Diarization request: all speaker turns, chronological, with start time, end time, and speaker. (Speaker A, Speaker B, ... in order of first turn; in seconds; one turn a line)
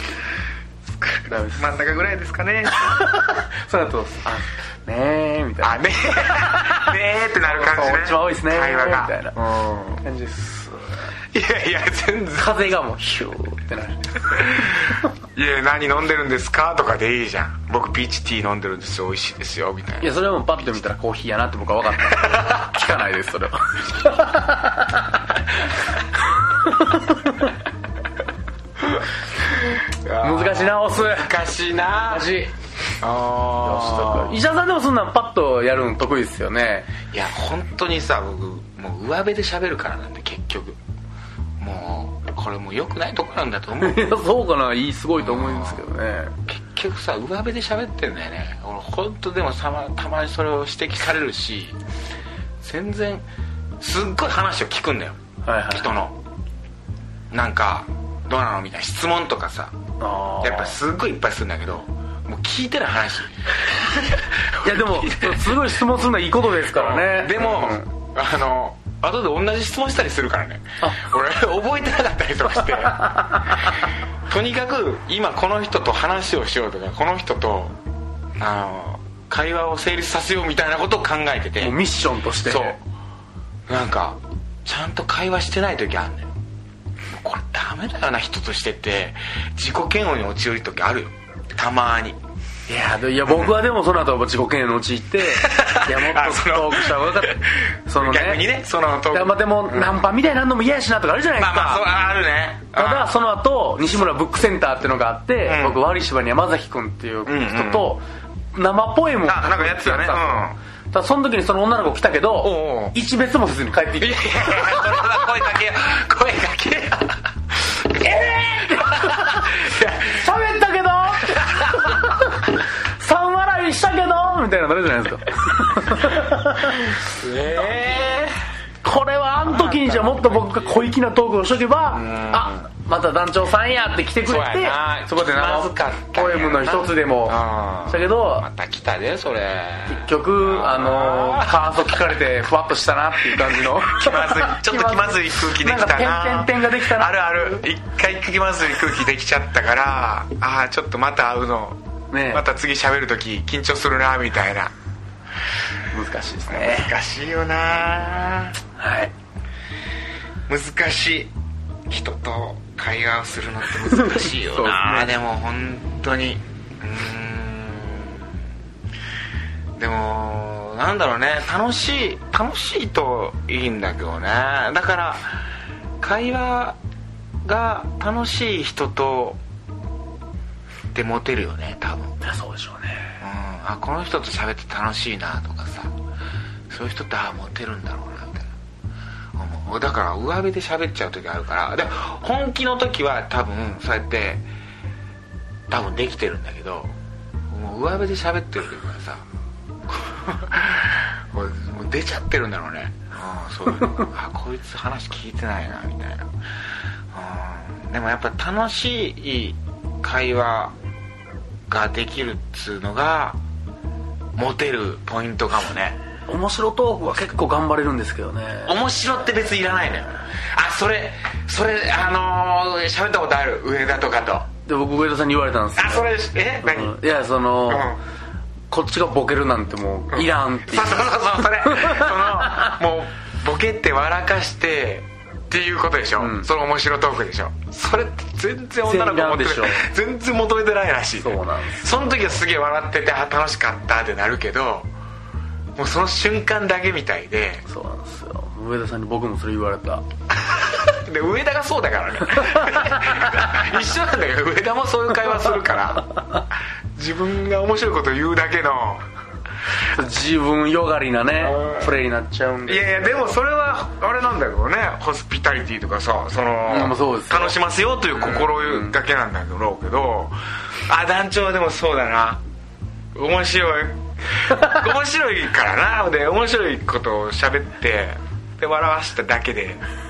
Speaker A: 1.0-3.0
Speaker B: 1.3-1.7
Speaker B: 2.7-9.4
Speaker A: 5.6-10.0
Speaker B: 10.0-11.1
Speaker A: 11.3-12.7
Speaker B: 12.4-14.9
Speaker A: 14.4-20.1
Speaker B: 20.0-25.3
Speaker B: 26.5-27.5
Speaker A: 29.7-32.3
Speaker B: 30.2-31.4
Speaker B: 32.1-32.5
Speaker A: 33.0-34.4
Speaker B: 33.6-36.9
Speaker A: 37.1-40.8
Speaker A: 41.6-44.1
Speaker B: 43.8-46.3
Speaker A: 45.2-45.8
Speaker A: 46.5-51.8
Speaker A: 52.6-53.2
Speaker A: 53.8-56.2
Speaker B: 55.4-55.9
Speaker A: 57.3-59.8
Speaker B: 60.0-60.8
Speaker A: 60.4-65.7
Speaker B: 64.6-67.9
Speaker A: 66.7-77.8
Speaker B: 73.0-73.6
Speaker A: 78.4-81.8
Speaker B: 81.6-82.8
Speaker A: 82.5-82.8
Speaker A: 83.7-86.3
Speaker A: 87.1-92.2
Speaker B: 92.7-98.5
Speaker A: 95.3-100.0
Speaker B: 99.1-101.9
Speaker A: 101.4-103.1
Speaker B: 102.8-115.3
Speaker A: 105.5-105.8
Speaker A: 107.2-107.9
Speaker A: 109.2-110.6
Speaker A: 112.4-113.0
Speaker A: 114.0-120.1
Speaker B: 118.0-126.8
Speaker A: 126.8-128.4
Speaker B: 128.8-138.5
Speaker A: 129.5-130.4
Speaker A: 131.9-132.7
Speaker A: 134.3-141.7
Speaker B: 139.9-147.6
Speaker A: 143.4-151.8
Speaker B: 152.1-152.4
Speaker A: 152.3-154.7
Speaker B: 155.9-156.9
Speaker A: 156.5-158.6
Speaker B: 158.8-159.1
Speaker A: 160.5-161.3
Speaker A: 161.9-168.3
Speaker B: 164.1-165.1
Speaker A: 169.8-175.4
Speaker A: 176.0-176.8
Speaker A: 177.4-179.4
Speaker A: 180.9-182.2
Speaker B: 182.2-183.2
Speaker A: 183.2-185.9
Speaker A: 186.7-188.5
Speaker A: 189.4-194.4
Speaker A: 195.7-196.9
Speaker A: 197.5-199.2
Speaker A: 199.9-206.3
Speaker A: 207.1-210.8
Speaker A: 211.7-213.4
Speaker A: 214.4-216.0
Speaker B: 216.3-218.8
Speaker A: 218.7-224.5
Speaker B: 224.6-227.9
Speaker A: 225.8-227.0
Speaker A: 227.7-228.0
Speaker B: 228.7-232.7
Speaker A: 230.1-244.9
Speaker B: 236.2-236.5
Speaker B: 238.8-239.9
Speaker B: 241.2-242.4
Speaker A: 245.8-247.7
Speaker B: 247.7-250.1
Speaker A: 250.4-256.2
Speaker B: 252.6-253.4
Speaker A: 256.9-259.1
Speaker B: 259.9-263.4
Speaker A: 261.4-262.0
Speaker A: 262.7-272.4
Speaker B: 266.7-267.6
Speaker B: 268.2-269.0
Speaker A: 273.1-279.9